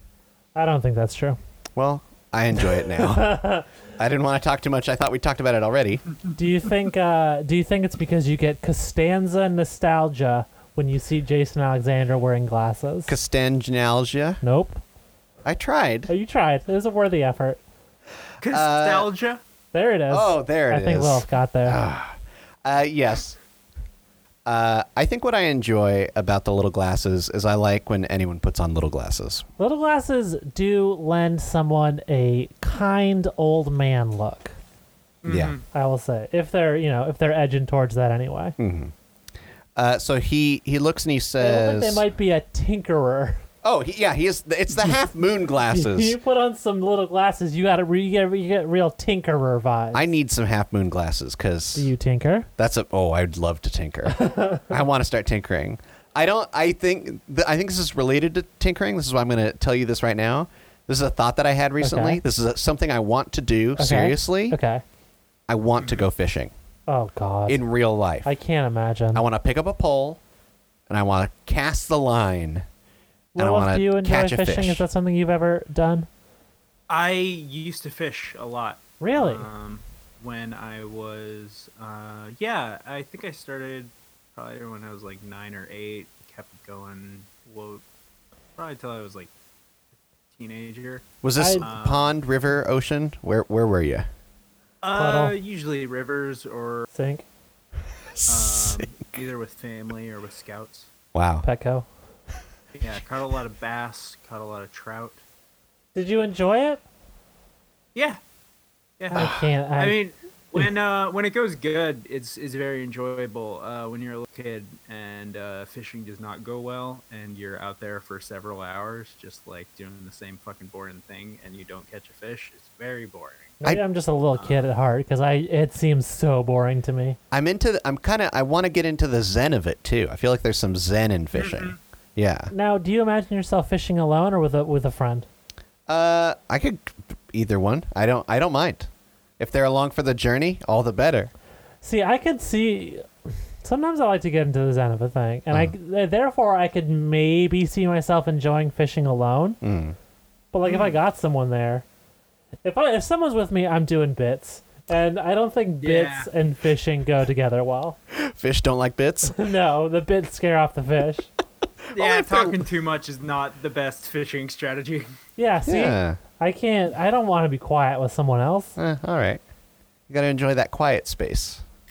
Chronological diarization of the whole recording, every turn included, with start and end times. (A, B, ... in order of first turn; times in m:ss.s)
0:00.6-0:01.4 A
0:01.8-0:03.4 B
0:02.8-0:03.7 A
0:04.0-0:06.0 B
0:06.4-0:13.2 A
0:13.1-0:14.4 B
0:14.4-0:14.8 A
0:15.4-0:16.1 B
0:16.1-0:17.6 A
0:18.4-0:19.4 C
0:18.5-0:19.1 B
0:19.7-0:21.8 A
0:20.1-0:23.4 B
0:24.4-0:29.5 B
0:29.6-0:34.6 A
0:35.2-0:35.6 C
0:35.2-0:35.5 B
0:35.7-0:38.6 A
0:38.6-0:38.9 B
0:39.8-0:42.0 B
0:41.4-0:43.4 A
0:43.6-0:46.2 B
0:45.7-0:50.1 A
0:49.9-0:51.9 B
0:51.7-0:52.5 A
0:52.6-1:04.6 B
0:54.1-0:54.7 A
1:01.8-1:02.2 A
1:03.8-1:04.8 A
1:05.5-1:06.5 B
1:05.8-1:06.1 C
1:06.9-1:07.6 A
1:07.5-1:08.3 B
1:08.2-1:09.2 A
1:09.1-1:10.2 B
1:10.9-1:12.6 B
1:13.3-1:16.1 A
1:13.4-1:14.8 B
1:16.9-1:27.8 C
1:19.0-1:19.5 A
1:28.6-1:29.3 C
1:30.3-1:32.1 C
1:31.2-1:34.1 B
1:31.4-1:31.7 A
1:34.8-1:36.9 C
1:34.9-1:35.4 A
1:36.9-1:37.2 A
1:38.2-1:38.9 B
1:38.2-1:40.9 C
1:41.1-1:41.4 B
1:41.4-1:41.9 A
1:42.7-1:45.2 C
1:45.9-1:46.8 A
1:47.9-1:48.2 C
1:49.0-2:03.6 C
1:49.1-1:50.0 A
1:49.1-1:49.4 B
2:03.6-2:07.2 A
2:04.4-2:04.6 C
2:07.3-2:12.5 B
2:11.3-2:11.8 C
2:12.5-2:15.3 A
2:15.9-2:21.3 B
2:21.8-2:29.6 A
2:29.6-2:30.0 B
2:30.5-2:31.8 A
2:30.6-2:30.9 C
2:32.6-2:38.0 A
2:35.8-2:36.3 C
2:38.1-2:39.3 B
2:39.2-2:41.3 A
2:41.8-2:42.6 B
2:41.9-2:45.1 C
2:45.4-2:48.8 A
2:45.6-2:46.2 B
2:48.8-2:49.4 B
2:50.1-2:51.6 B